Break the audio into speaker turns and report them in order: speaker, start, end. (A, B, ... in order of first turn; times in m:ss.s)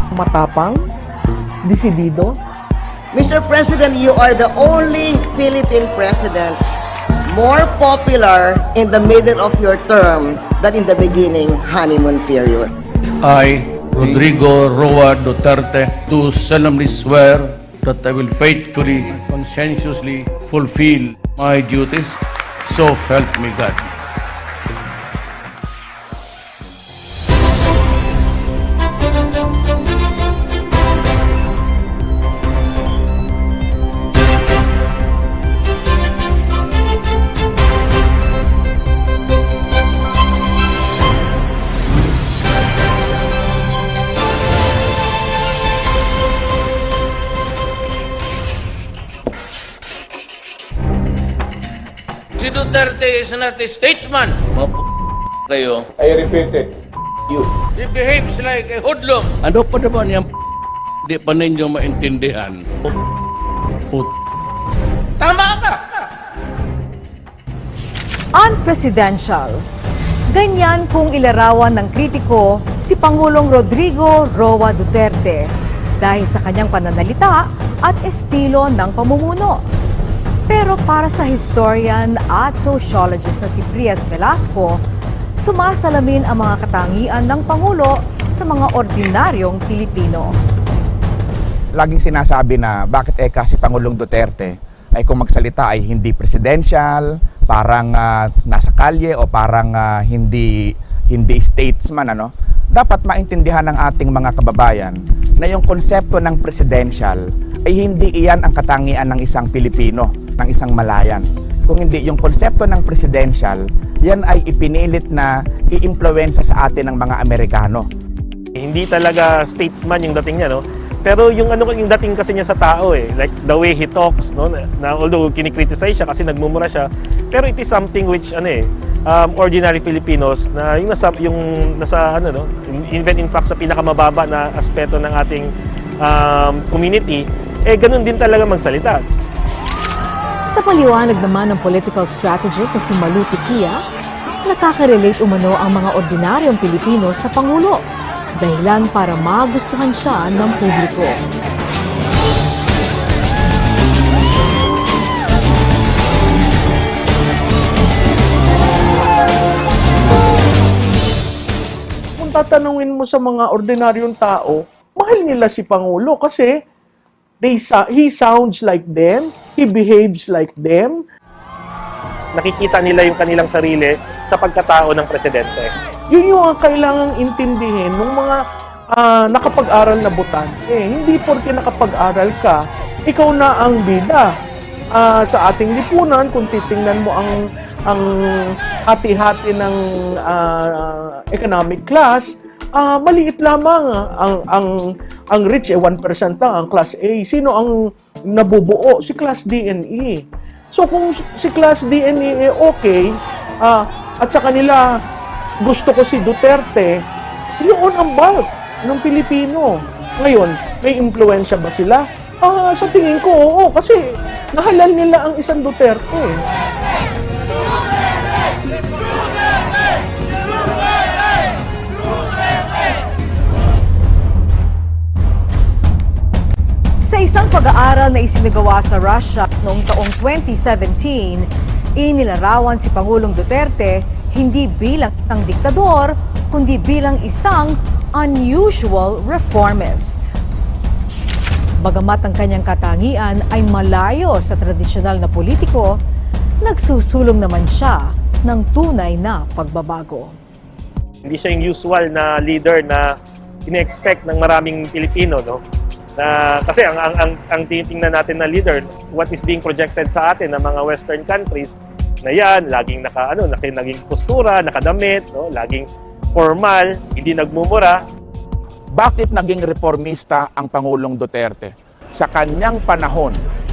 0:00.2-0:00.7 A
0:01.7-0:02.3 A
0:03.1-0:06.6 B
0:07.2-0:12.7 B
0:13.2-0:23.8 C
0:52.4-0:54.8 C
0:55.5-0:56.7 C
0:57.3-1:00.3 C
1:01.0-1:02.7 C
1:05.2-1:05.8 C
1:08.3-1:09.6 D
1:10.3-1:19.6 D
1:20.5-1:24.8 D
1:25.4-1:30.3 D
1:31.8-1:40.5 E
1:41.1-1:57.9 E
1:58.6-2:15.5 F
2:16.0-2:19.0 F
2:20.5-2:23.8 D
2:24.4-2:27.8 D
2:28.4-2:31.2 D
2:42.2-2:46.4 A
2:47.4-2:50.9 A
2:52.4-2:55.7 F
2:56.1-2:58.3 A
2:59.0-3:02.5 A
3:03.1-3:04.2 A
3:05.0-3:07.3 A
3:08.9-3:09.7 A
3:11.4-3:12.2 A
3:12.8-3:14.7 A
3:15.3-3:17.7 A
3:18.3-3:20.2 A
3:20.8-3:23.0 A
3:23.6-3:24.8 A
3:25.6-3:26.9 A
3:27.6-3:29.7 A
3:30.2-3:33.9 A
3:34.6-3:36.3 A
3:47.0-4:00.4 D
4:01.8-4:06.0 D
4:06.6-4:10.4 D
4:11.3-4:13.1 F
4:13.7-4:15.6 F
4:16.2-4:28.0 F
4:29.0-4:33.4 E